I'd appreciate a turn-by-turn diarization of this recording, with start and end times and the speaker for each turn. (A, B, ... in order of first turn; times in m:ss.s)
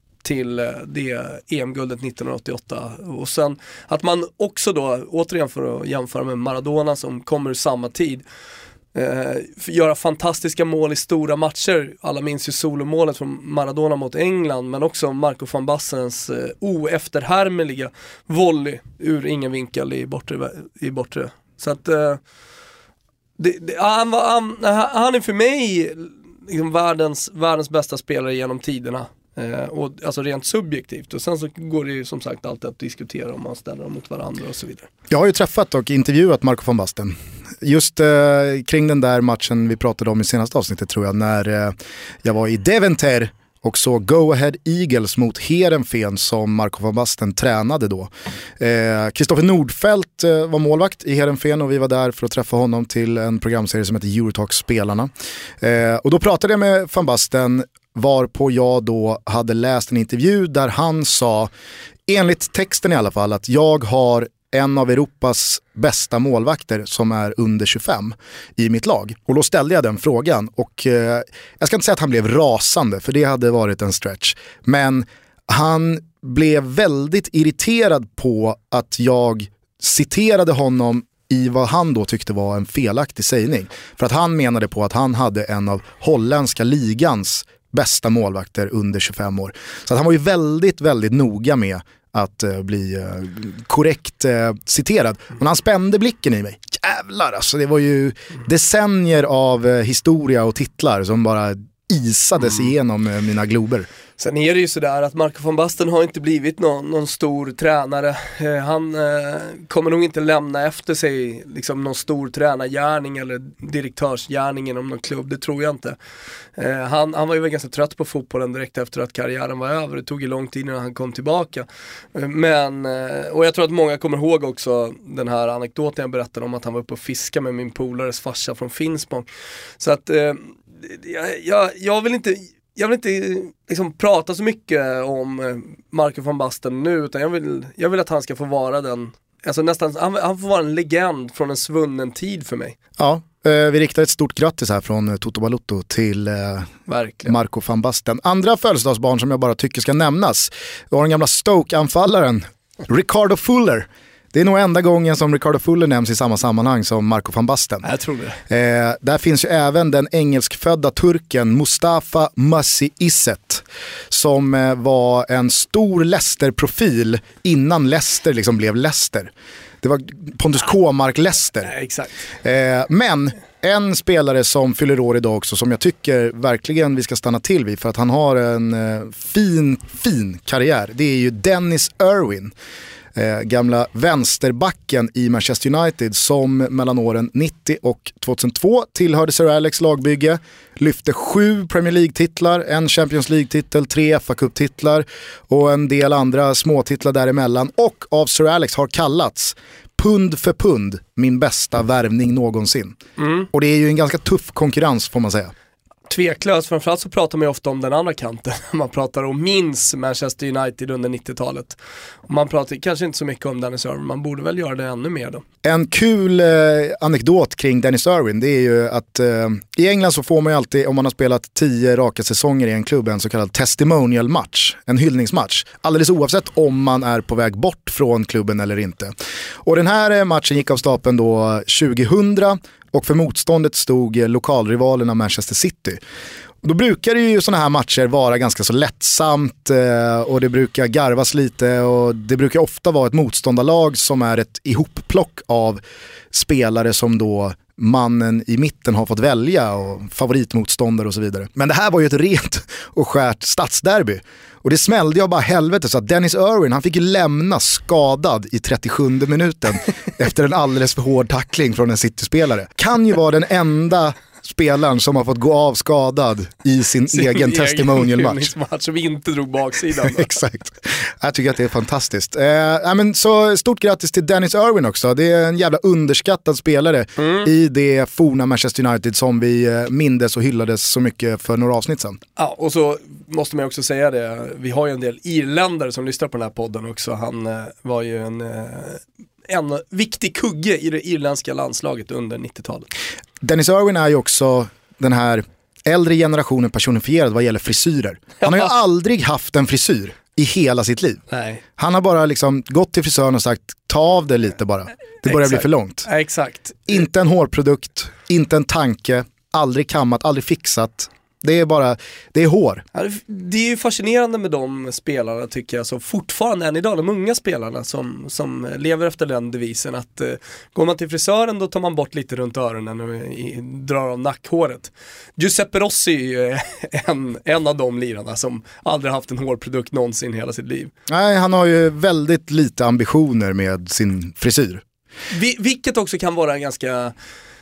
0:00.2-0:08.2 A
0:08.9-0:22.2 A
0:23.4-0:34.9 A
0:35.1-0:55.1 B
0:55.6-1:01.5 B
1:02.1-1:43.9 B
1:44.2-1:56.0 A
1:56.6-2:09.3 A
2:09.8-2:22.8 A
2:23.0-2:26.7 B
2:26.9-2:27.3 A
2:27.2-2:37.9 B
2:37.8-2:38.4 A
2:38.5-2:49.3 B
2:49.8-2:51.7 B
2:51.6-2:52.1 A
2:52.4-3:02.5 B
3:03.1-3:23.0 B
3:23.2-3:23.5 A
3:23.5-3:25.5 B
3:26.1-3:35.4 A
3:35.6-3:49.1 B
3:49.6-3:56.0 B
3:56.6-4:05.8 B
4:06.3-4:28.5 B
4:27.1-4:30.4 A
4:30.1-4:42.2 B
4:37.2-4:37.5 A
4:42.4-4:52.9 A
4:53.4-5:01.2 B
4:58.4-4:58.7 A
5:01.3-5:01.6 A
5:01.8-5:06.1 B
5:05.2-5:07.0 A
5:06.9-5:12.8 B
5:12.9-5:30.9 A
5:31.1-5:34.8 B
5:35.3-5:37.1 A